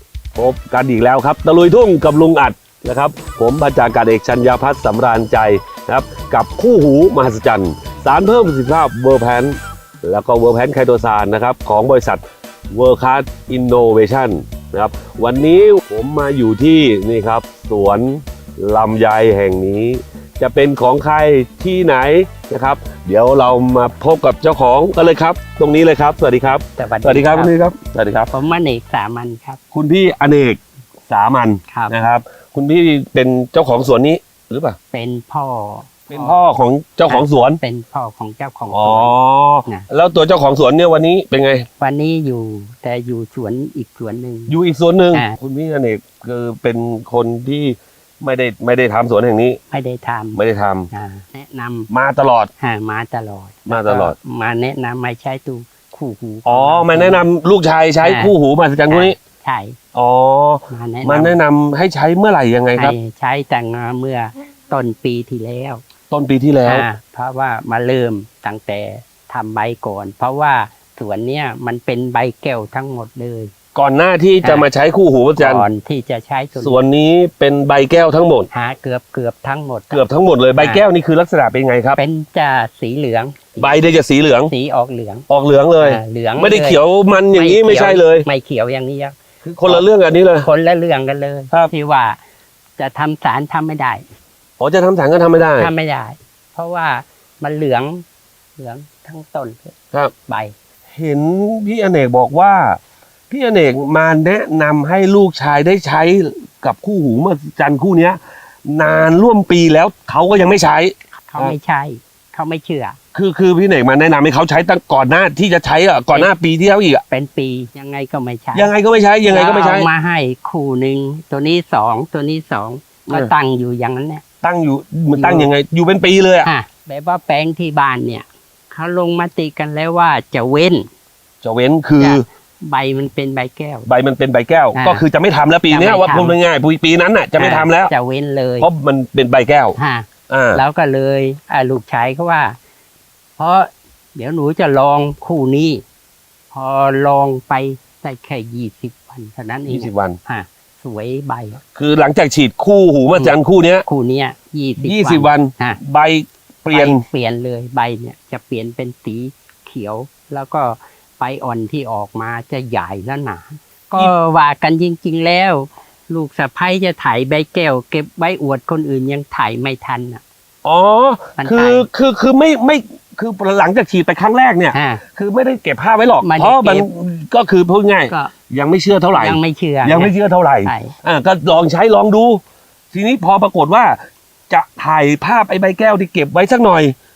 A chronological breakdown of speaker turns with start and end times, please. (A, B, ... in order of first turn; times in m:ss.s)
0:00.4-0:28.3 A
0:26.8-0:27.5 B
0:28.3-0:29.6 B
0:29.7-0:34.8 A
0:34.9-0:36.4 B
0:36.1-0:37.6 A
0:37.1-0:39.9 B
0:38.7-0:41.7 A
0:41.8-0:44.6 B
0:44.5-0:49.6 A
0:49.7-0:50.4 B
0:50.4-0:50.9 A
0:50.9-0:51.9 B
0:51.9-0:52.5 A
0:52.6-0:57.2 B
0:53.7-0:54.2 A
0:56.5-0:59.2 A
0:58.0-0:58.3 B
0:58.9-0:59.8 B
0:59.9-1:03.0 A
1:00.7-1:01.4 B
1:02.8-1:05.8 B
1:06.1-1:06.9 A
1:06.6-1:13.5 B
1:13.8-1:15.6 A
1:14.4-1:14.7 B
1:15.4-1:16.8 B
1:16.6-1:18.5 A
1:18.5-1:20.0 B
1:19.9-1:22.0 A
1:20.6-1:20.8 B
1:22.0-1:23.8 B
1:23.6-1:24.5 A
1:24.5-1:25.3 B
1:25.3-1:28.3 A
1:25.8-1:26.8 B
1:27.3-1:29.8 B
1:29.4-1:30.5 A
1:30.4-1:32.2 B
1:32.8-1:34.0 B
1:34.6-1:35.7 A
1:35.6-1:38.0 B
1:38.6-1:39.8 B
1:40.3-1:40.5 B
1:40.9-1:42.8 A
1:43.3-1:51.6 A
1:51.3-1:53.0 B
1:53.1-1:57.0 A
1:57.1-1:58.7 B
1:58.5-1:59.9 A
1:59.3-2:04.2 B
2:04.4-2:06.5 A
2:05.1-2:05.5 B
2:06.4-2:10.9 B
2:11.4-2:12.2 A
2:12.0-2:13.9 B
2:13.9-2:17.9 A
2:14.7-2:15.0 B
2:15.7-2:16.4 B
2:17.4-2:18.7 B
2:18.6-2:19.8 A
2:19.8-2:22.6 B
2:20.3-2:20.6 A
2:23.4-2:25.8 B
2:26.5-2:31.6 B
2:29.7-2:30.2 A
2:31.8-2:33.9 A
2:33.1-2:35.8 B
2:34.8-2:37.0 A
2:36.7-2:50.2 B
2:50.6-3:04.0 A
2:51.4-2:51.9 B
2:54.7-2:55.0 B
2:56.2-2:56.9 B
2:59.1-3:00.1 B
3:00.6-3:00.9 B
3:04.5-3:07.0 A